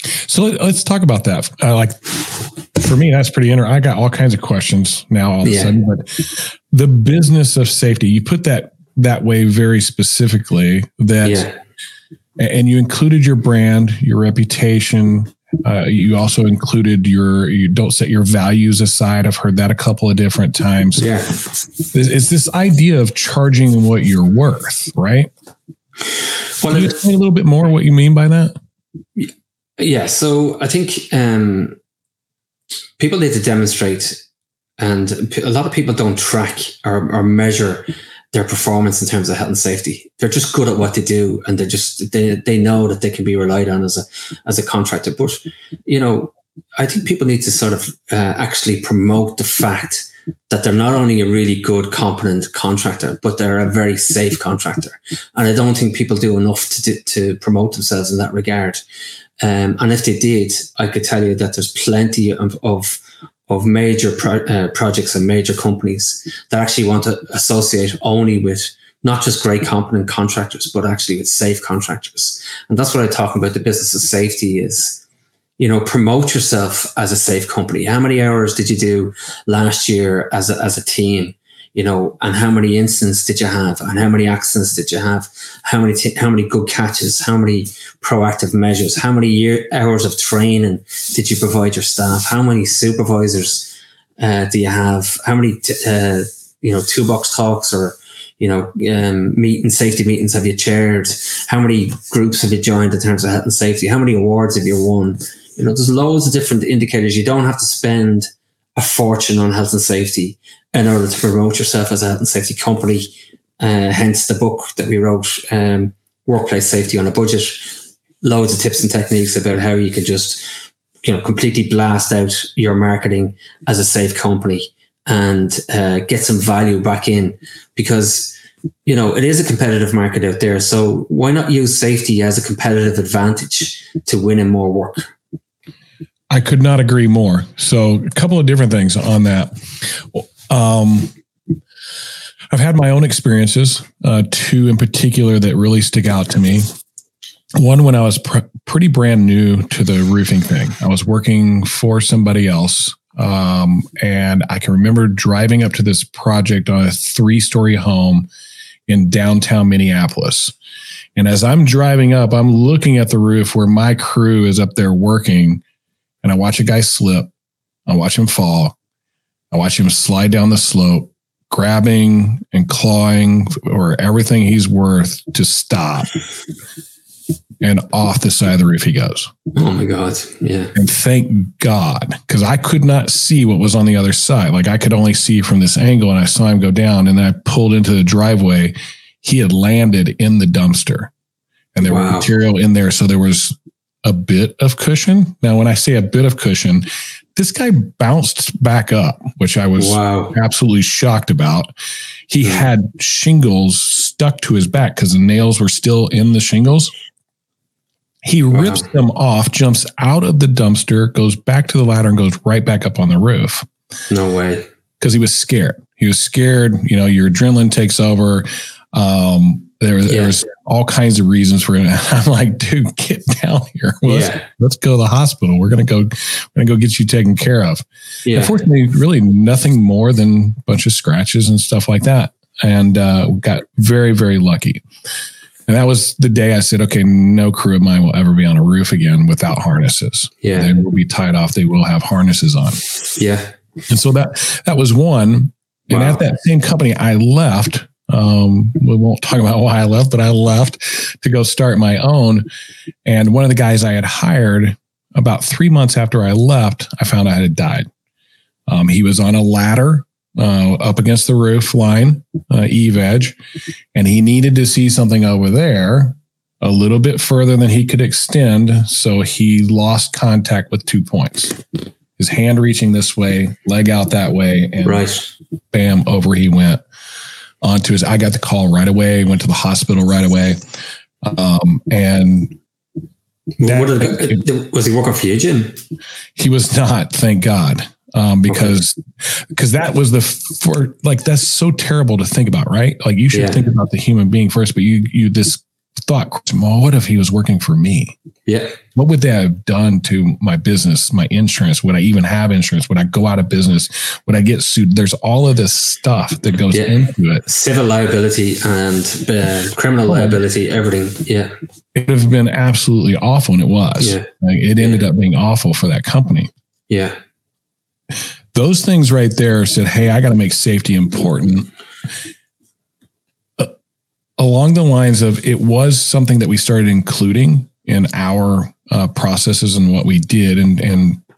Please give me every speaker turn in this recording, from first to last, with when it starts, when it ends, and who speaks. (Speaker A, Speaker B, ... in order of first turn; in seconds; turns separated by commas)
Speaker A: 0.3-11.5, Speaker B: 5.4-5.7, Speaker B: 11.2-11.5, Speaker A: 12.4-21.0, Speaker B: 21.0-21.4, Speaker A: 21.9-25.3, Speaker B: 26.6-27.0, Speaker A: 26.7-28.5, Speaker B: 29.2-31.8, Speaker B: 33.0-34.2, Speaker B: 34.8-58.8, Speaker B: 59.4-75.0, Speaker B: 75.6-120.5, Speaker B: 121.0-135.1, Speaker A: 136.3-141.1, Speaker A: 142.5-146.7, Speaker A: 147.6-158.3, Speaker A: 158.9-160.5, Speaker A: 161.2-165.6, Speaker A: 166.2-167.3, Speaker A: 167.9-168.8, Speaker A: 169.5-176.1, Speaker A: 177.6-179.3, Speaker B: 179.5-180.7, Speaker A: 180.7-191.1, Speaker A: 191.7-201.7, Speaker B: 191.8-192.3, Speaker B: 199.8-200.3, Speaker A: 202.3-206.9, Speaker B: 202.4-202.7, Speaker A: 208.2-213.7, Speaker B: 208.5-208.9, Speaker B: 214.1-214.7, Speaker A: 215.0-234.8, Speaker B: 220.1-220.3, Speaker B: 224.1-224.4, Speaker B: 228.2-228.6, Speaker A: 235.7-242.8, Speaker B: 240.4-240.7, Speaker B: 243.2-243.5, Speaker A: 243.9-252.4, Speaker B: 245.9-246.2, Speaker A: 253.1-257.9, Speaker A: 258.7-263.4, Speaker A: 263.9-271.6, Speaker A: 272.2-275.1, Speaker B: 274.8-275.3, Speaker A: 275.7-276.8, Speaker A: 277.6-280.6, Speaker A: 281.2-282.6, Speaker B: 283.6-285.8, Speaker A: 283.6-284.4, Speaker A: 286.4-298.1, Speaker B: 288.5-288.7, Speaker B: 293.3-293.6, Speaker B: 298.5-298.8, Speaker A: 298.9-307.4, Speaker B: 306.7-311.5, Speaker A: 310.1-310.4, Speaker A: 311.9-316.5, Speaker B: 314.0-314.2, Speaker B: 316.9-317.2, Speaker A: 318.5-321.7, Speaker A: 324.4-331.2